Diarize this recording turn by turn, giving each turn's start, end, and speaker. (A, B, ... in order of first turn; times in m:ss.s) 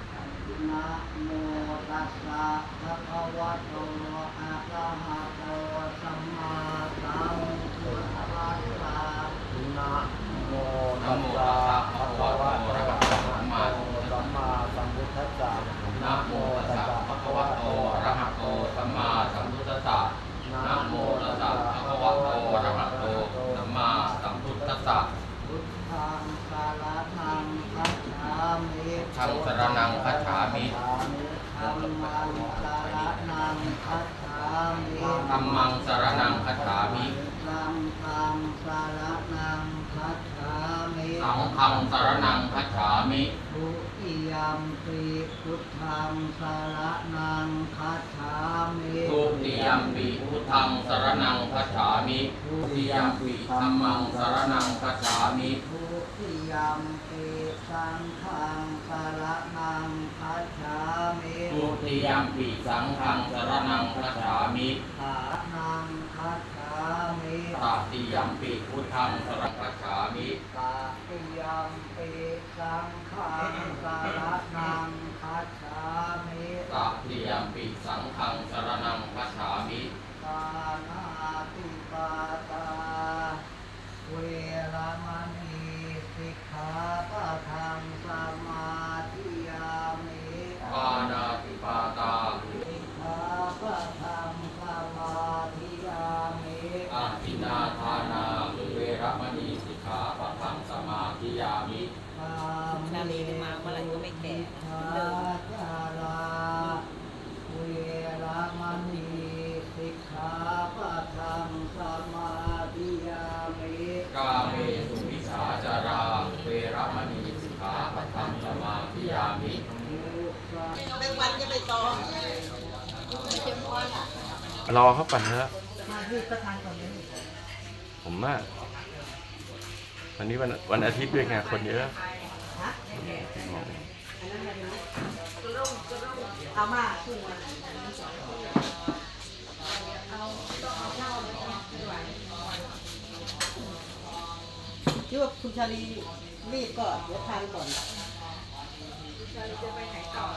0:00.5-0:10.9 A
0:11.0-0:14.4 B
0:16.0-0:25.1 B
0:25.7-0:29.2 A
0:29.1-0:30.7 B
0:30.9-0:41.3 A
0:35.0-0:37.1 B
0:41.2-0:43.3 B
0:43.5-0:49.2 A
0:49.0-0:55.6 B
0:52.4-0:52.7 A
0:55.6-1:01.6 A
1:01.5-1:04.8 B
1:05.0-1:07.6 A
1:07.5-1:10.4 B
1:10.5-1:16.7 A
1:16.7-1:19.9 B
1:20.2-1:23.4 A
1:24.0-1:30.7 A
1:30.6-1:32.4 B
1:32.6-1:36.9 A
1:36.9-1:41.9 B
1:42.2-1:46.8 A
1:42.7-1:45.3 C
1:47.5-1:54.0 A
1:54.1-1:59.6 B
1:59.8-2:00.7 A
2:01.0-2:02.0 C
2:03.2-2:04.0 C
2:04.7-2:05.5 D
2:05.8-2:07.1 C
2:08.0-2:08.5 D
2:10.2-2:12.0 D
2:12.9-2:13.8 D
2:14.2-2:14.8 C
2:16.5-2:18.4 C
2:25.1-2:27.8 C